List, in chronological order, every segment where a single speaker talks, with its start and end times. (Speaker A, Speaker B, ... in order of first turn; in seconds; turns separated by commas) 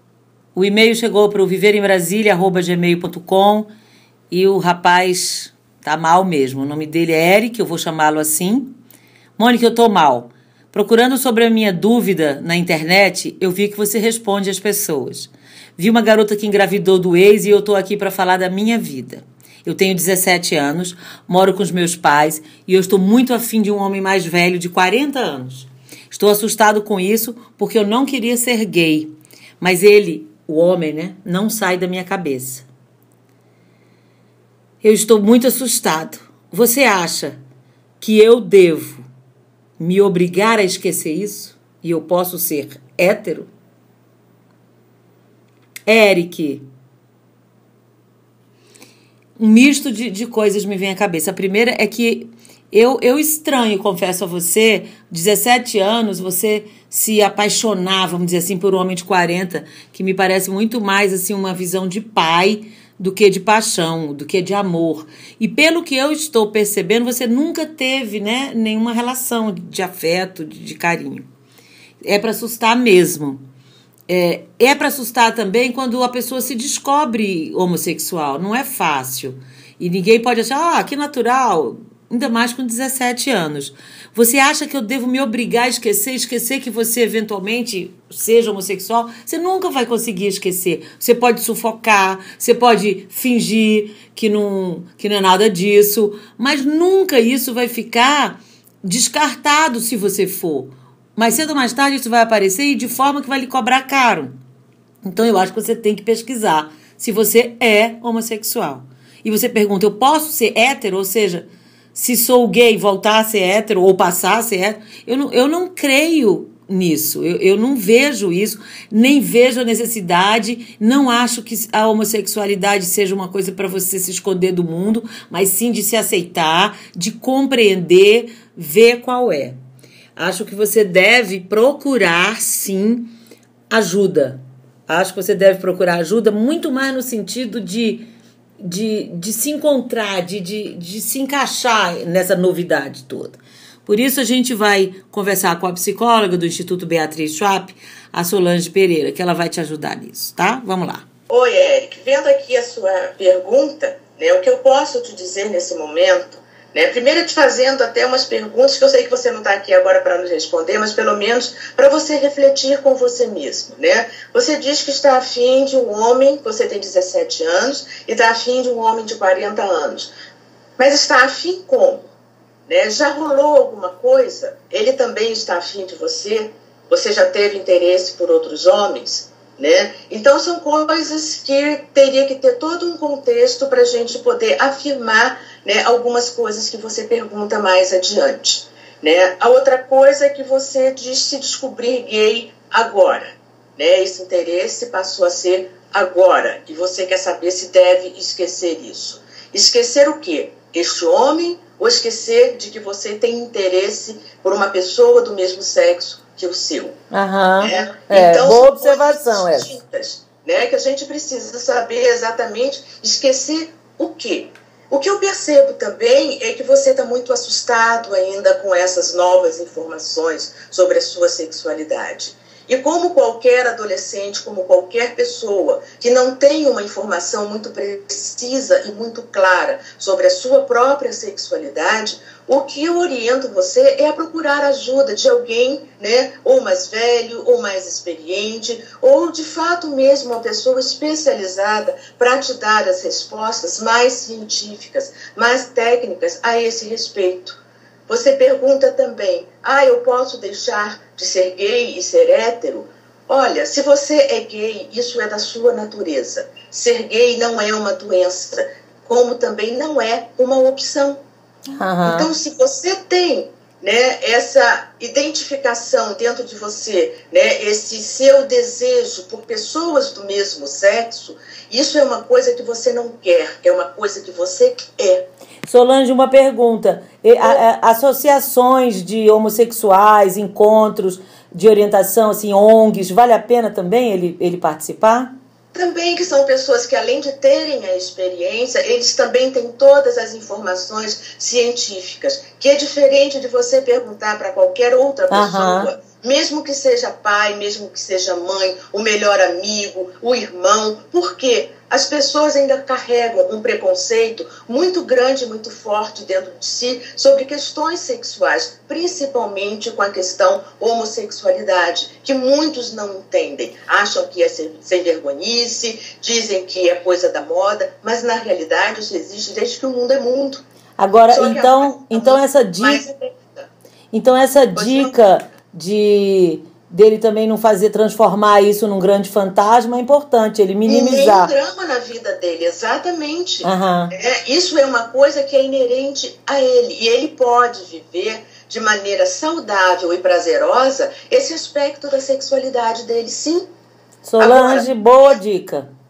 Speaker A: 0.5-3.7, Speaker A: 4.3-8.7, Speaker A: 9.4-32.6, Speaker A: 34.8-37.4, Speaker A: 38.0-39.1, Speaker A: 39.8-43.5, Speaker A: 45.9-46.6, Speaker A: 49.4-71.2, Speaker A: 72.0-73.4, Speaker A: 74.1-104.3, Speaker A: 105.0-129.6, Speaker A: 130.2-133.1, Speaker A: 133.7-138.1, Speaker A: 138.6-151.1, Speaker B: 151.3-170.1, Speaker B: 170.8-172.0, Speaker B: 172.7-206.9, Speaker A: 207.1-209.7, Speaker B: 207.6-261.2, Speaker A: 261.7-262.3, Speaker B: 262.0-275.3, Speaker A: 275.6-285.3, Speaker B: 285.7-320.6, Speaker A: 295.3-295.9, Speaker A: 321.0-323.0, Speaker B: 321.3-323.7, Speaker A: 324.1-331.5, Speaker B: 324.7-325.1, Speaker B: 330.9-343.7, Speaker A: 333.6-334.1, Speaker A: 344.2-345.9, Speaker B: 344.4-344.9